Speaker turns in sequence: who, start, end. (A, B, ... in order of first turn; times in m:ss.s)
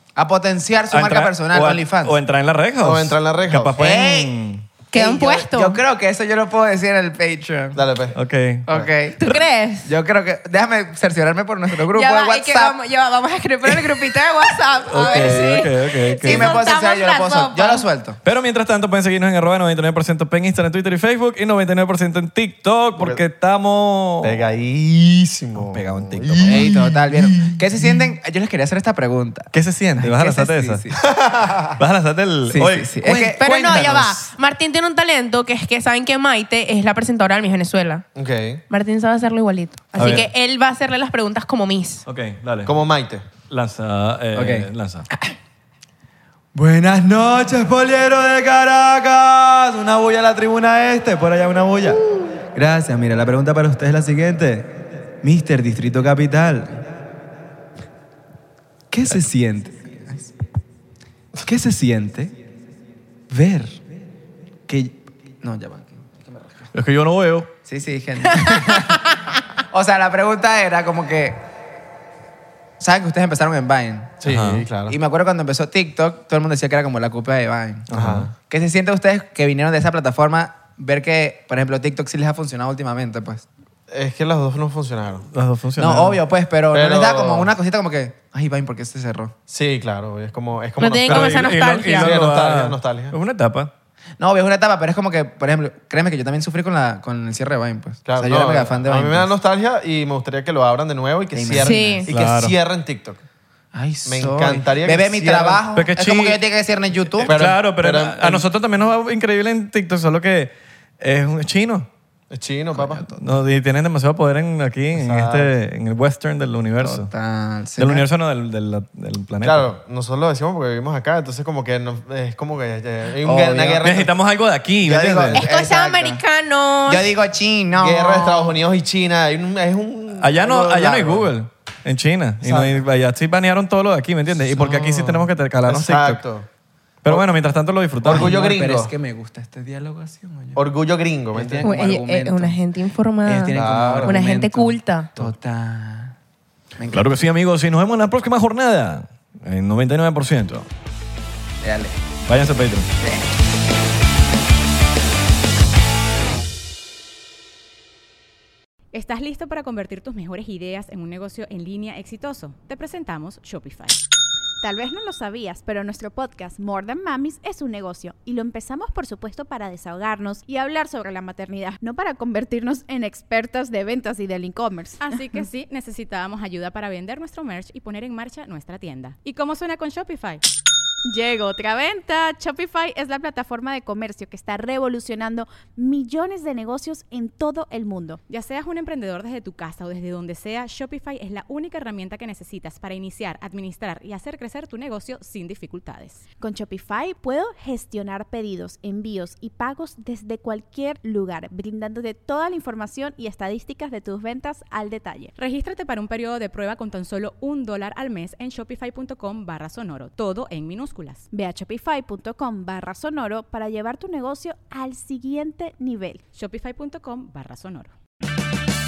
0:00.2-0:02.2 A
0:00.9-0:04.7 B
0:02.8-0:03.8 C
0:03.8-0:04.4 A
0:04.9-0:05.8 D
0:04.9-0:07.8 A
0:07.7-0:08.2 C
0:08.1-0:08.6 B
0:08.7-0:09.3 A
0:09.2-0:09.9 D
0:09.8-0:12.8 A
0:11.8-0:17.8 D
0:13.7-0:14.0 A
0:14.9-0:16.6 B
0:16.2-0:18.2 A
0:18.2-0:24.4 B
0:23.0-0:23.2 C
0:24.2-0:27.8 C
0:25.6-0:26.7 B
0:26.4-0:31.0 A
0:29.5-0:30.8 B
0:31.1-0:31.5 C
0:31.8-0:34.0 B
0:32.5-0:34.3 A
0:33.4-0:38.1 D
0:38.2-0:38.6 C
0:38.7-0:42.0 D
0:40.0-0:40.3 B
0:42.1-0:42.7 B
0:42.6-0:43.3 C
0:43.3-0:45.0 B
0:44.3-0:45.3 A
0:46.5-0:52.0 A
0:52.5-0:56.8 A
0:58.9-1:00.3 A
1:01.4-1:02.3 A
1:03.3-1:03.8 A
1:04.7-1:06.7 A
1:06.7-1:07.5 B
1:07.6-1:09.0 A
1:08.3-1:08.9 D
1:09.7-1:11.4 A
1:12.8-1:14.2 A
1:14.2-1:15.0 C
1:14.2-1:14.6 B
1:14.9-1:17.8 A
1:17.9-1:18.3 B
1:17.9-1:18.3 C
1:18.5-1:23.4 A
1:23.9-1:25.2 C
1:25.3-1:26.2 B
1:25.8-1:29.3 A
1:26.7-1:27.5 C
1:29.5-1:33.2 C
1:30.8-1:32.1 D
1:31.1-1:33.7 B
1:34.2-1:39.3 A
1:38.0-1:43.2 C
1:41.3-1:42.1 A
1:41.6-1:42.0 D
1:42.1-1:42.5 B
1:43.7-1:47.3 A
1:44.0-1:45.6 C
1:45.7-1:46.4 B
1:47.2-1:51.9 B
1:47.3-1:48.5 C
1:52.3-1:53.0 C
1:52.7-1:53.2 A
1:53.2-1:57.1 B
1:54.9-1:55.5 C
1:56.8-1:58.1 A
1:57.8-1:59.7 B
1:59.4-2:04.1 C
2:03.2-2:03.9 A
2:03.8-2:05.4 B
2:04.8-2:06.2 A
2:05.3-2:07.1 D
2:06.9-2:08.5 A
2:07.7-2:11.3 C
2:10.2-2:16.2 B
2:12.4-2:12.8 C
2:14.6-2:16.5 C
2:17.0-2:18.4 B
2:18.0-2:18.9 C
2:18.0-2:20.7 A
2:20.6-2:21.6 C
2:21.3-2:22.6 A
2:21.6-2:25.1 D
2:23.2-2:26.1 A
2:23.5-2:24.2 C
2:26.8-2:27.1 A
2:26.9-2:30.7 B
2:31.6-2:32.0 A
2:32.3-2:32.9 B
2:38.9-2:44.0 E
2:44.6-2:55.2 F
2:55.0-3:00.4 E
3:01.0-3:08.2 F
3:08.3-3:16.2 E
3:16.4-3:25.3 F
3:25.4-3:31.3 E
3:31.3-3:36.2 F
3:36.3-3:37.9 E